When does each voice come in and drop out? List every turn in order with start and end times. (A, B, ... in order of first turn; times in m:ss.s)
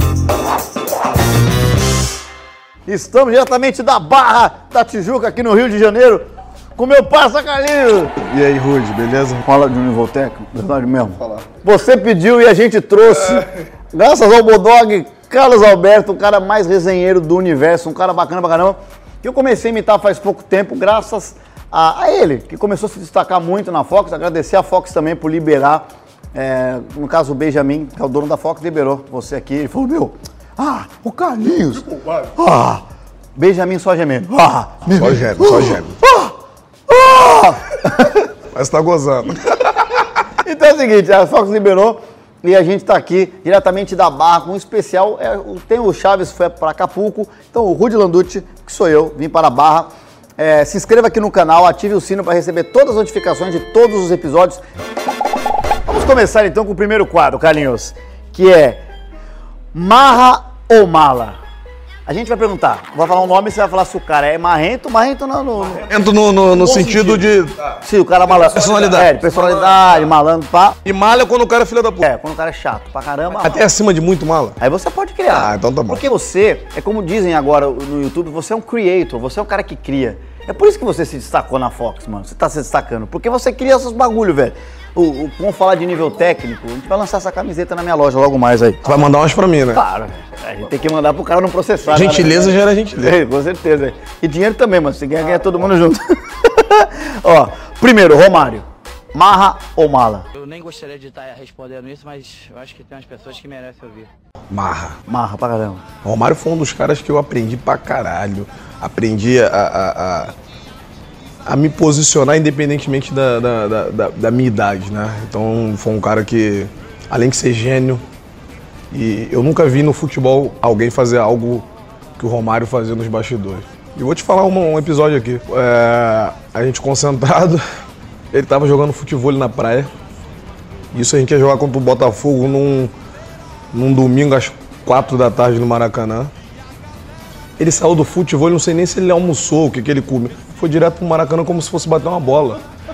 0:02.9-0:08.1 A
0:08.2-0:09.4 B
0:09.4-0:32.8 A
0:13.0-0:13.4 B
0:33.4-0:36.4 A
0:34.9-0:36.0 B
0:36.9-0:38.3 A
0:38.5-0:39.5 B
0:40.2-0:54.6 A
0:55.9-0:58.8 A
0:59.7-1:01.4 A
1:02.1-1:05.9 A
1:05.9-1:10.1 B
1:06.5-1:07.2 A
1:07.8-1:10.8 A
1:10.8-1:12.1 B
1:12.0-1:13.6 A
1:13.4-1:14.6 B
1:14.6-1:28.8 A
1:15.3-1:16.0 B
1:28.8-1:29.8 B
1:29.7-1:40.3 A
1:31.9-1:33.2 B
1:40.3-1:44.1 C
1:44.5-1:45.0 B
1:45.1-1:45.8 A
1:46.0-1:50.3 B
1:51.5-1:58.0 B
1:58.9-2:01.7 B
2:02.2-2:07.6 B
2:08.3-2:09.9 B
2:10.9-2:12.9 B
2:13.7-2:16.3 B
2:17.6-2:22.6 B